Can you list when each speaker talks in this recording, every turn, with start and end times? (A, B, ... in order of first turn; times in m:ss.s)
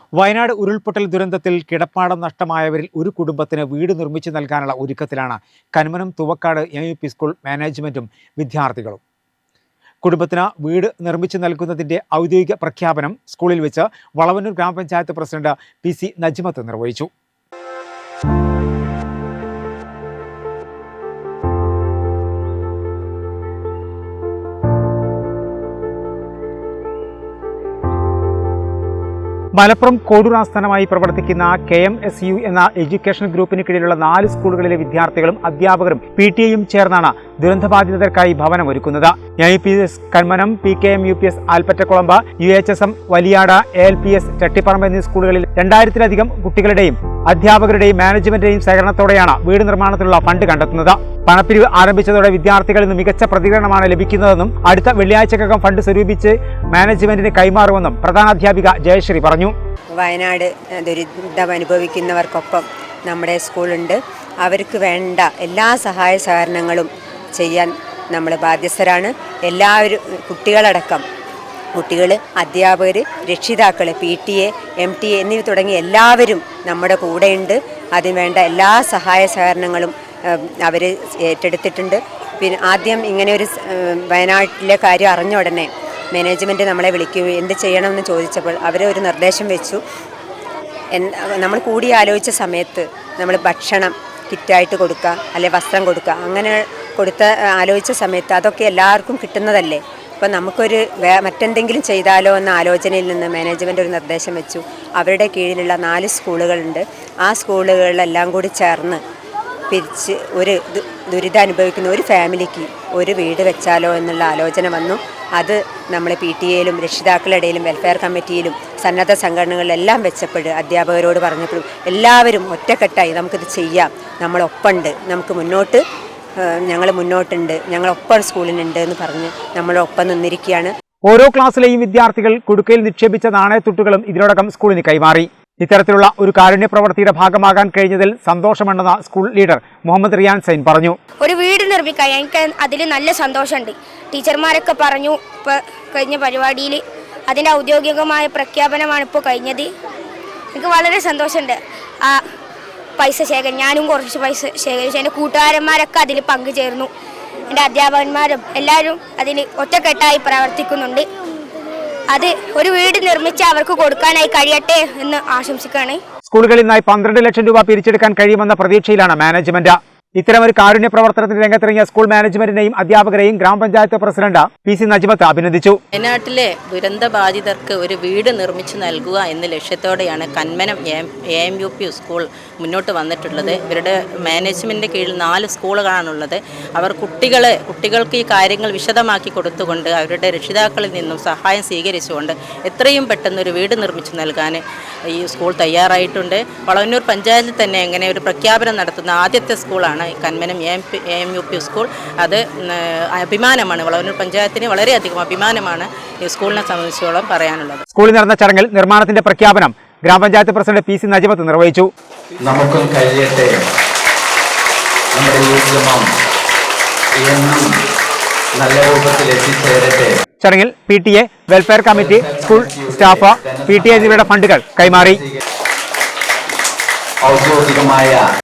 0:00.2-0:09.0 A
0:10.0-0:17.1 A
0:29.6-0:59.5 A
1:00.0-1:11.0 B
1:11.8-1:29.8 B
1:31.0-1:49.0 B
1:49.7-2:05.8 B
2:06.4-2:10.7 B
2:11.1-2:21.0 A
2:21.2-2:29.7 C
2:30.5-2:32.2 C
2:33.0-2:36.9 C
2:37.5-2:41.1 C
2:42.1-2:46.0 C
2:46.3-2:55.8 A
2:55.9-3:27.8 D
3:27.9-3:31.9 A
3:32.4-3:33.5 E
3:35.2-3:36.1 E
3:37.2-3:37.7 E
3:38.6-3:40.1 E
3:40.4-3:45.2 A
3:41.9-3:44.3 E
3:47.2-3:48.2 E